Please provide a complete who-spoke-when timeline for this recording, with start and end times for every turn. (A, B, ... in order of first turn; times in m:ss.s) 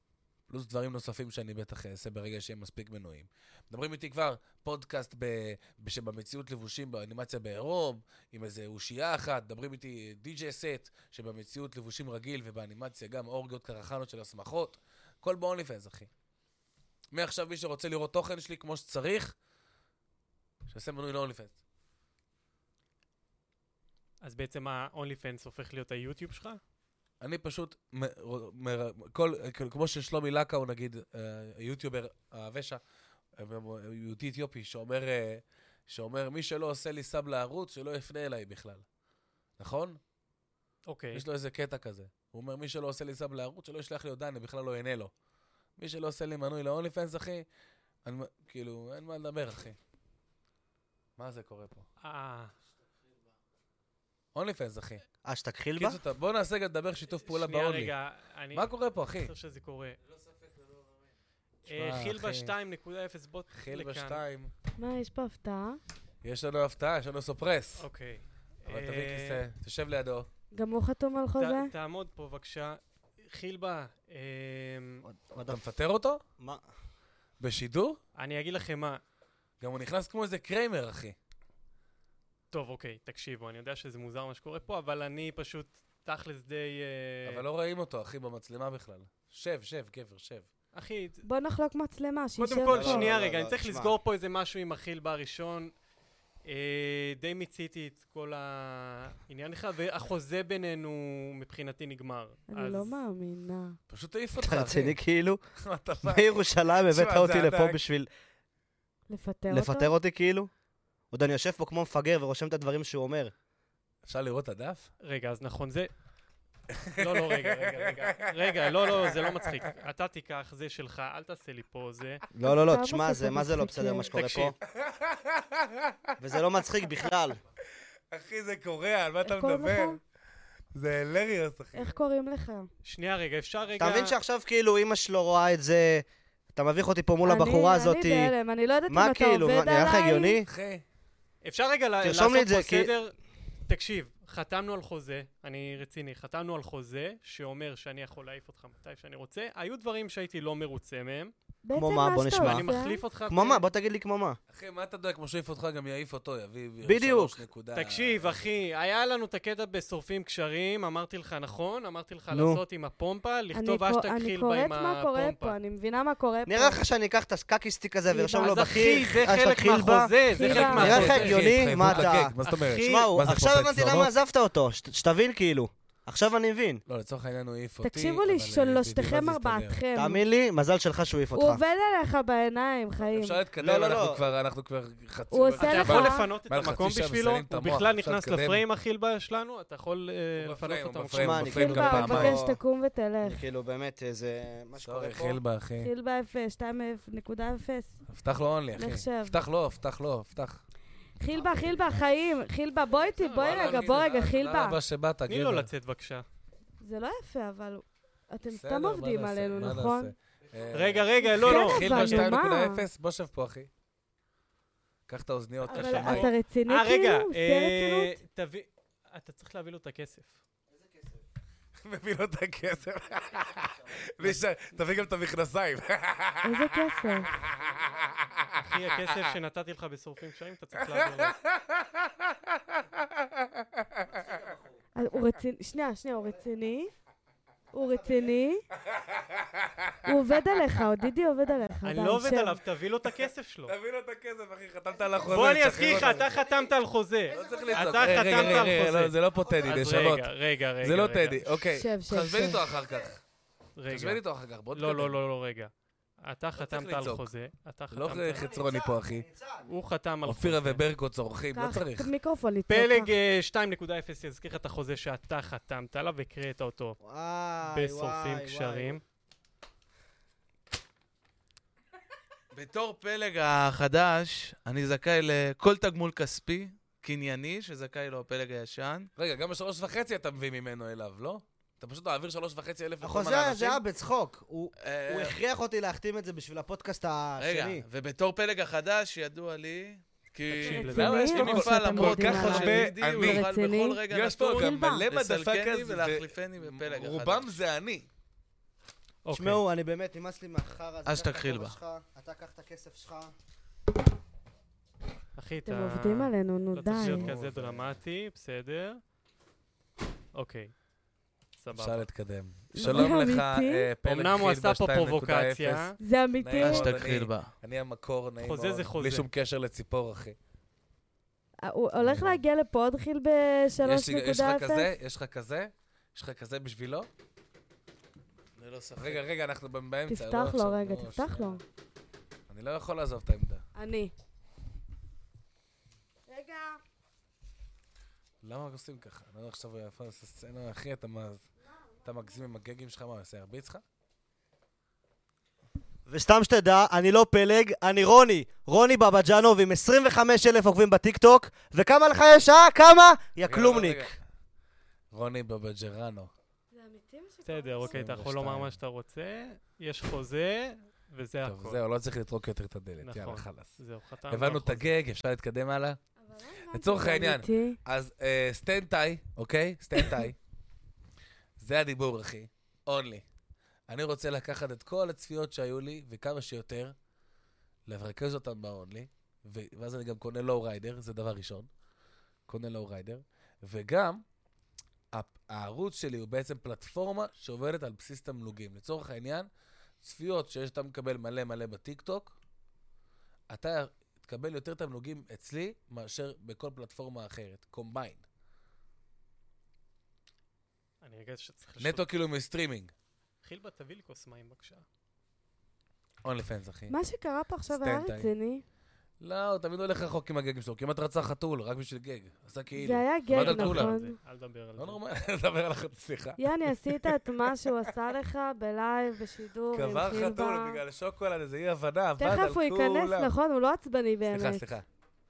0:00.5-0:16.1 A
0:17.1-0:19.4 A
0:20.7-0:21.6 A
0:24.2-0:26.6 B
0:27.2-0:32.8 A
0:33.4-0:38.8 A
0:39.6-0:40.0 A
0:40.9-0:41.2 B
0:41.1-0:45.1 A
0:45.8-0:47.5 A
0:48.0-0:49.8 A
0:51.2-0:51.9 A
0:52.0-0:52.5 B
0:54.3-0:55.0 A
0:55.2-0:56.0 C
0:55.8-0:57.9 A
0:57.3-1:00.0 B
0:58.5-0:59.3 A
1:01.7-1:02.5 A
1:01.7-1:04.2 B
1:03.5-1:04.5 A
1:04.8-1:05.8 D
1:06.2-1:07.9 A
1:07.8-1:09.4 B
1:08.7-1:10.3 A
1:10.5-1:11.7 D
1:11.4-1:15.0 B
1:15.0-1:15.6 C
1:15.5-1:16.2 A
1:17.4-1:18.0 A
1:18.2-1:19.0 B
1:19.6-1:21.2 A
1:22.5-1:27.4 B
1:27.3-1:30.5 A
1:30.7-1:31.3 B
1:31.2-1:33.1 D
1:32.4-1:35.7 B
1:32.6-1:33.9 C
1:36.4-1:42.9 B
1:42.5-1:43.8 D
1:43.9-1:45.0 A
1:44.4-1:45.4 C
1:45.6-1:47.8 A
1:46.0-1:48.1 C
1:49.1-1:49.9 D
1:49.5-1:50.5 C
1:51.1-1:53.3 C
1:54.0-1:54.9 A
1:55.0-1:55.9 B
1:56.8-1:59.2 A
1:57.0-2:02.2 B
2:02.3-2:04.6 C
2:02.4-2:04.1 D
2:04.1-2:04.5 B
2:04.8-2:06.0 A
2:06.2-2:07.4 C
2:08.1-2:10.0 A
2:09.2-2:10.0 D
2:10.7-2:11.9 A
2:11.7-2:12.7 D
2:12.8-2:14.2 B
2:13.8-2:18.3 C
2:17.2-2:20.4 D
2:18.9-2:20.5 C
2:20.5-2:20.8 A
2:21.4-2:23.1 B
2:22.0-2:22.9 C
2:23.7-2:31.3 B
2:31.6-2:33.0 D
2:31.8-2:32.7 C
2:32.4-2:33.6 B
2:33.3-2:34.4 C
2:34.5-2:38.4 A
2:36.8-2:37.4 C
2:37.7-2:45.6 B
2:42.3-2:42.6 C
2:43.5-2:46.8 D
2:46.5-2:56.8 C
2:48.1-2:48.7 D
2:48.4-2:53.1 B
2:50.3-2:51.3 D
2:50.4-2:54.1 A
2:56.9-2:59.8 A
2:57.8-3:00.2 D
3:00.0-3:01.6 C
3:01.3-3:03.4 D
3:03.1-3:08.6 A
3:03.6-3:04.2 C
3:05.3-3:06.3 D
3:05.6-3:11.9 B
3:10.4-3:12.4 A
3:11.2-3:12.6 C
3:11.5-3:13.4 D
3:13.2-3:15.4 C
3:14.8-3:15.9 A
3:15.8-3:18.0 D
3:18.1-3:20.6 A
3:18.8-3:19.4 D
3:21.2-3:24.8 D
3:23.0-3:24.0 B
3:23.3-3:25.7 A
3:25.3-3:26.2 B
3:26.8-3:30.1 D
3:28.5-3:33.7 A
3:30.7-3:32.4 B
3:31.2-3:32.8 D
3:35.1-3:36.3 A
3:35.6-3:40.4 B
3:35.7-3:38.2 D
3:40.7-3:41.2 C
3:41.8-3:49.3 A
3:46.4-3:47.3 D
3:48.6-3:51.4 B
3:50.8-3:54.1 A
3:54.1-3:54.8 C
3:55.0-3:56.9 D
3:57.7-3:58.7 D
3:58.9-4:00.1 A
4:00.0-4:02.6 D
4:01.8-4:03.8 B
4:03.7-4:06.4 A
4:05.3-4:11.6 B
4:06.1-4:06.4 C
4:07.3-4:08.8 C
4:07.3-4:13.2 A
4:09.5-4:09.8 C
4:11.7-4:12.7 D
4:13.8-4:14.2 B
4:13.9-4:15.2 A
4:14.7-4:15.7 B
4:16.2-4:18.6 B
4:16.6-4:17.3 A
4:17.9-4:19.3 A
4:18.3-4:19.6 C
4:19.6-4:20.8 B
4:20.2-4:22.1 A
4:21.5-4:23.1 D
4:22.7-4:27.0 B
4:27.0-4:29.0 C
4:27.7-4:29.0 B
4:32.5-4:39.1 E
4:39.2-4:43.8 A
4:43.0-4:47.8 C
4:44.8-4:45.4 E
4:47.4-4:57.5 E
4:50.5-4:51.3 B
4:50.6-4:55.1 D
4:50.9-4:53.5 A
4:54.1-4:58.1 A
4:59.2-4:59.6 B
4:59.3-5:03.3 C
5:01.0-5:01.8 E
5:05.4-5:09.0 B
5:05.7-5:07.3 D
5:07.0-5:07.9 A
5:10.4-5:10.7 B
5:11.6-5:12.1 B
5:11.7-5:20.4 A
5:12.7-5:13.9 D
5:12.8-5:13.2 B
5:14.0-5:16.0 B
5:16.0-5:17.0 D
5:16.6-5:17.5 E
5:18.4-5:19.3 B
5:21.6-5:24.9 D
5:22.0-5:22.4 A
5:23.8-5:27.1 A
5:28.6-5:29.2 E
5:29.0-5:31.6 A
5:30.1-5:31.6 D
5:32.5-5:33.6 A
5:33.8-5:34.1 D
5:36.3-5:36.8 D
5:38.4-5:41.4 A
5:42.0-5:43.8 A
5:46.1-5:54.2 C
5:53.5-5:54.2 A
5:55.1-5:56.3 A
5:56.7-5:58.0 D
5:57.4-6:01.8 B
5:57.9-5:58.8 A
6:01.4-6:03.8 A
6:03.0-6:04.9 B
6:04.3-6:06.0 A
6:06.2-6:07.8 D
6:06.7-6:10.4 A
6:11.6-6:13.2 A
6:13.9-6:17.0 A
6:17.9-6:21.7 A
6:22.5-6:24.2 A
6:25.1-6:29.5 A
6:30.0-6:32.4 A
6:33.5-6:38.2 A
6:41.0-6:42.0 B
6:41.8-6:42.9 A
6:43.4-6:44.8 B
6:46.2-6:47.0 A
6:46.9-6:48.6 D
6:47.7-6:48.3 A
6:49.2-6:53.9 A
6:52.8-6:54.2 D
6:53.3-6:55.0 B
6:54.8-6:57.1 A
6:56.4-7:00.8 D
6:59.7-7:03.3 A
7:02.2-7:04.7 D
7:04.3-7:04.9 A